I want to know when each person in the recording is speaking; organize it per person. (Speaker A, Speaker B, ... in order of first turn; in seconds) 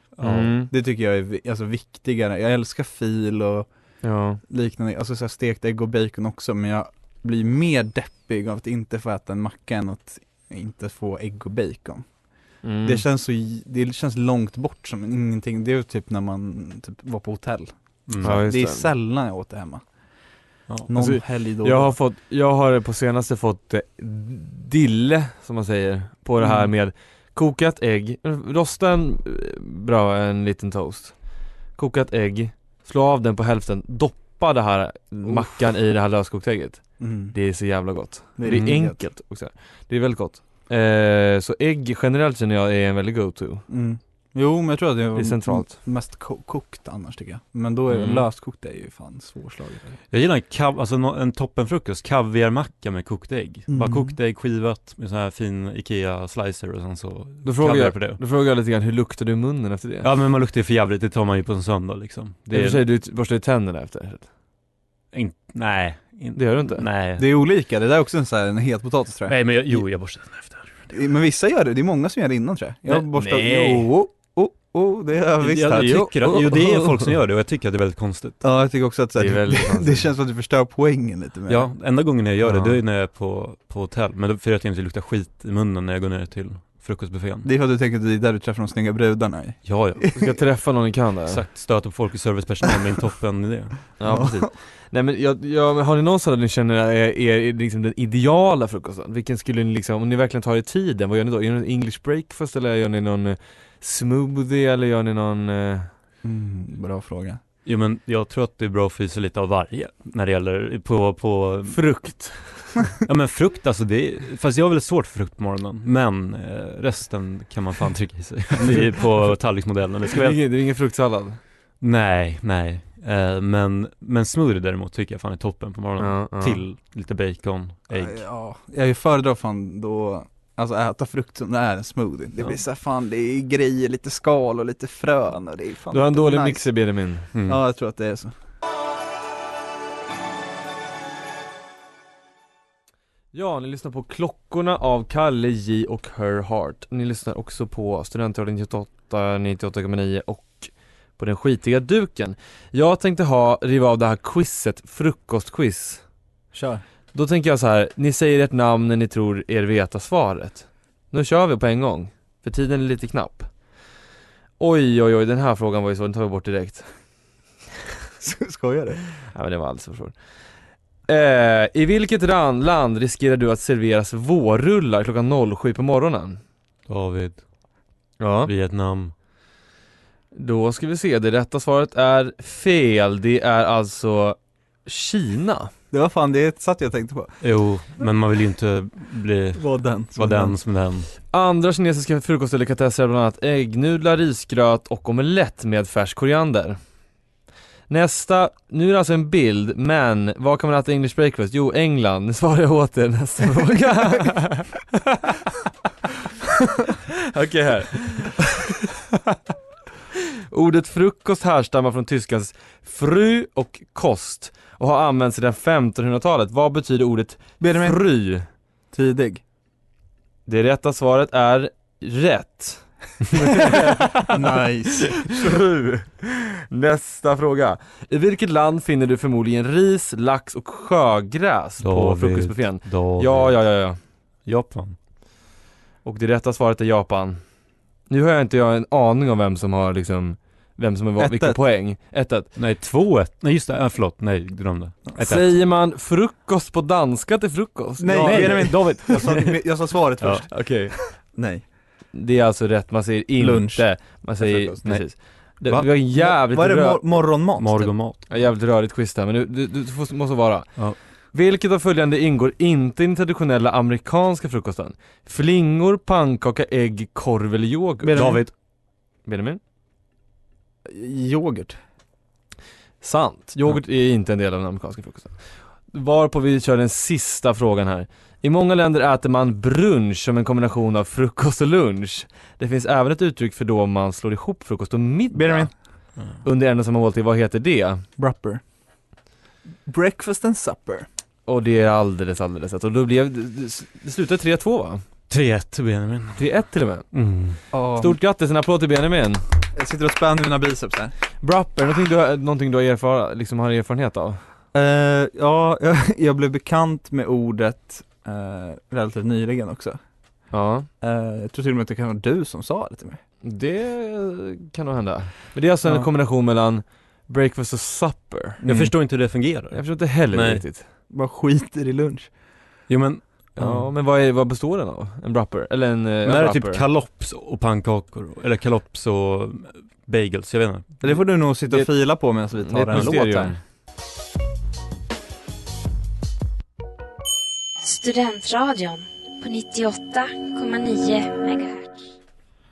Speaker A: 0.2-0.5, 18.1-18.4, 38.5-38.7, 50.1-58.2, 60.0-62.8, 65.1-67.3, 69.3-71.0, 75.4-78.4, 81.5-87.5, 89.7-90.2, 91.3-94.3, 107.6-112.4, 113.0-120.5, 121.8-128.2, 137.3-137.6, 176.9-177.4, 178.4-179.1, 187.4-191.1, 231.8-233.6, 234.4-235.0, 242.6-245.6, 248.2-249.2, 250.2-250.5, 254.8-255.9, 257.6-258.3, 268.1-268.5, 295.3-296.4, 297.1-297.6, 318.6-320.6, 322.9-323.9, 326.2-331.1
Speaker B: 0.2-0.7, 4.0-4.4, 12.6-13.0, 18.2-18.9, 20.9-31.2, 31.8-43.6, 45.1-45.7, 47.9-48.2, 57.4-60.1, 62.5-64.3, 66.3-66.9, 72.9-73.9, 75.7-77.1, 79.2-80.1, 82.4-82.8, 90.1-91.4, 94.0-105.9, 111.7-112.8, 120.1-121.4, 126.0-126.6, 135.9-137.3, 143.3-156.0, 157.1-163.5, 164.6-166.9, 169.3-170.2, 171.1-176.4, 178.2-178.5, 180.3-185.7, 191.3-196.8, 197.9-205.5, 207.3-208.6, 210.5-218.5, 220.5-234.0, 236.0-237.4, 238.1-242.5, 245.2-249.5, 250.5-251.0, 252.1-257.0, 258.3-268.5, 269.2-269.6, 273.0-285.7, 286.4-288.0, 291.5-295.0, 296.4-297.1, 298.0-299.4, 301.4-304.4, 310.5-310.9, 313.4-318.6, 319.7-320.9, 323.6-326.9, 331.7-333.6
Speaker C: 0.6-3.7, 4.5-12.1, 12.8-19.9, 20.9-22.0, 26.4-26.7, 35.2-35.6, 37.0-37.4, 38.4-39.0, 43.7-50.0, 53.7-54.2, 67.2-69.8, 70.9-76.1, 78.4-81.7, 87.4-90.2, 94.1-94.5, 106.2-107.4, 127.9-136.7, 137.4-138.3, 156.5-156.8, 168.2-169.0, 185.9-187.4, 189.6-190.6, 217.6-218.1, 218.9-219.4, 224.3-225.3, 241.2-241.6, 248.0-251.6, 253.4-254.9, 256.0-257.9, 268.0-268.4, 270.9-271.8, 285.3-285.7, 288.2-288.6, 289.9-291.1, 297.7-298.2, 299.7-301.1, 304.7-310.0, 311.0-313.2, 315.8-316.1, 318.6-318.9, 321.1-322.3, 331.0-333.6
Speaker D: 337.8-342.1